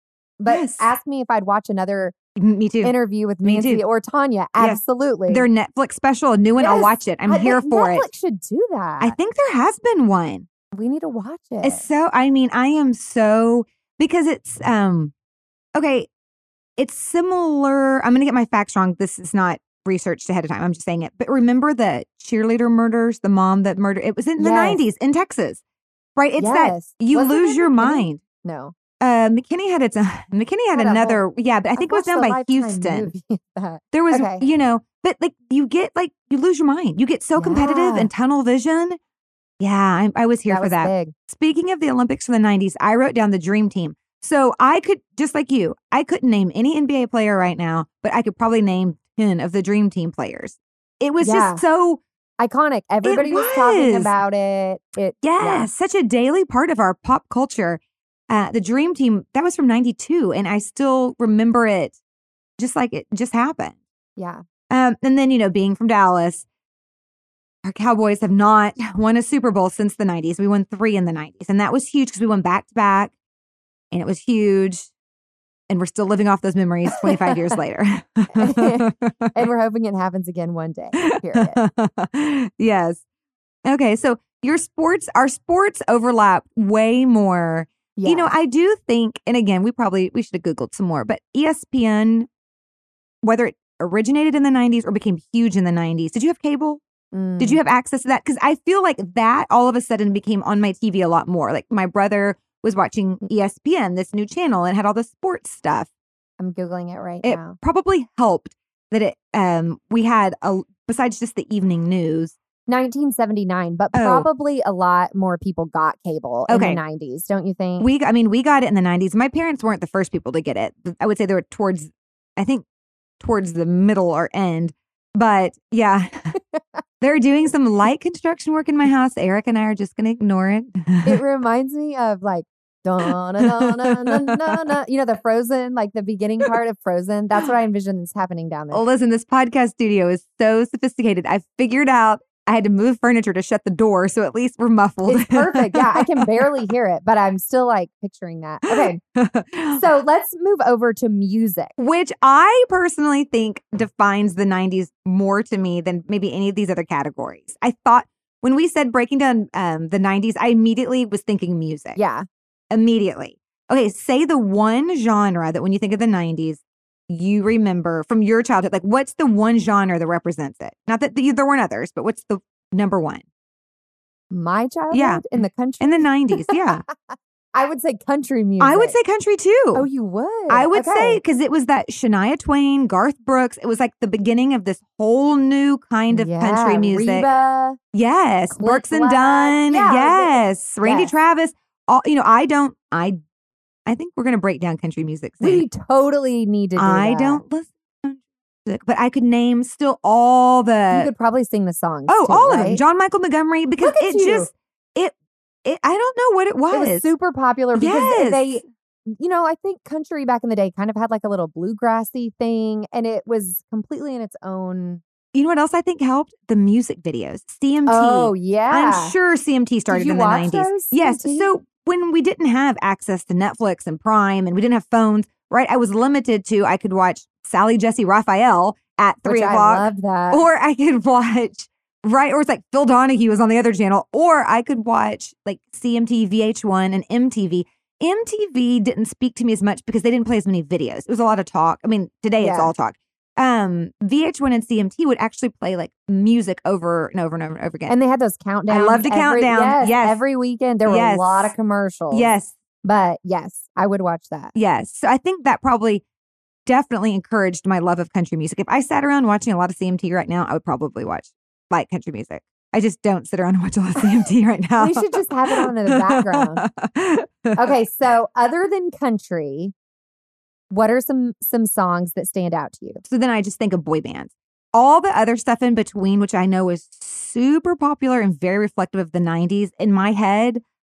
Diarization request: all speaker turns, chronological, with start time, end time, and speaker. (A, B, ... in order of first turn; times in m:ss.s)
0:00.4-0:02.1 A
0:00.4-0:00.9 B
0:02.4-0:03.8 B
0:02.8-0:05.4 A
0:04.6-0:08.1 B
0:06.6-0:09.2 A
0:09.0-0:10.5 B
0:10.7-0:11.9 A
0:11.6-0:15.1 B
0:15.8-0:16.1 B
0:16.8-0:25.6 B
0:24.4-0:24.8 A
0:26.2-0:28.2 B
0:26.4-0:28.7 A
0:29.0-0:33.1 B
0:30.7-0:31.2 A
0:31.8-0:34.4 A
0:33.9-0:39.0 B
0:37.4-0:38.1 A
0:39.6-0:52.0 B
0:40.5-0:41.1 A
0:51.2-0:51.6 A
0:52.4-0:55.7 A
0:53.0-0:54.1 B
0:55.2-1:02.0 B
1:02.6-1:03.8 B
1:04.2-1:04.4 A
1:04.7-1:06.4 B
1:07.6-1:13.1 B
1:13.9-1:14.9 B
1:15.7-1:19.3 B
1:16.9-1:17.6 A
1:18.3-1:21.6 A
1:21.0-1:23.0 B
1:23.6-1:32.3 B
1:28.0-1:28.3 A
1:33.2-1:36.8 B
1:37.1-1:37.6 A
1:37.4-1:45.9 B
1:46.4-1:47.6 A
1:47.2-1:52.3 B
1:52.7-1:57.9 A
1:53.9-1:54.2 B
1:56.5-1:56.8 B
1:57.8-2:02.6 B
2:03.2-2:06.3 B
2:06.4-2:06.6 A
2:07.0-2:11.2 B
2:11.0-2:18.8 A
2:13.1-2:14.7 B
2:18.7-2:26.4 B
2:25.1-2:29.0 A
2:28.7-2:29.8 B
2:29.7-2:31.7 A
2:31.8-2:42.0 B
2:42.0-2:42.2 A
2:42.7-2:53.2 B
2:54.3-2:59.0 A
2:54.9-2:56.8 B
2:58.6-2:59.8 B
2:59.7-3:01.2 A
3:00.5-3:07.3 B
3:06.1-3:07.8 A
3:07.9-3:13.2 B
3:08.5-3:11.1 A
3:13.8-3:15.6 B
3:15.4-3:17.4 A
3:16.8-3:21.1 B
3:20.9-3:22.8 A
3:22.1-3:27.0 B
3:23.8-3:24.5 A
3:26.7-3:35.0 A
3:27.7-3:28.5 B
3:35.3-4:07.9 B
3:37.8-3:39.1 A
3:39.9-3:41.5 A
3:49.2-3:50.4 A
4:02.4-4:02.7 A
4:07.9-4:12.3 A
4:08.7-4:10.2 B
4:10.8-4:11.5 B
4:12.1-4:12.5 B
4:12.8-4:14.5 A
4:14.5-4:16.0 B
4:16.6-4:27.7 B
4:24.8-4:26.7 A
4:27.5-4:29.7 A
4:30.7-4:33.0 A
4:33.0-4:40.6 B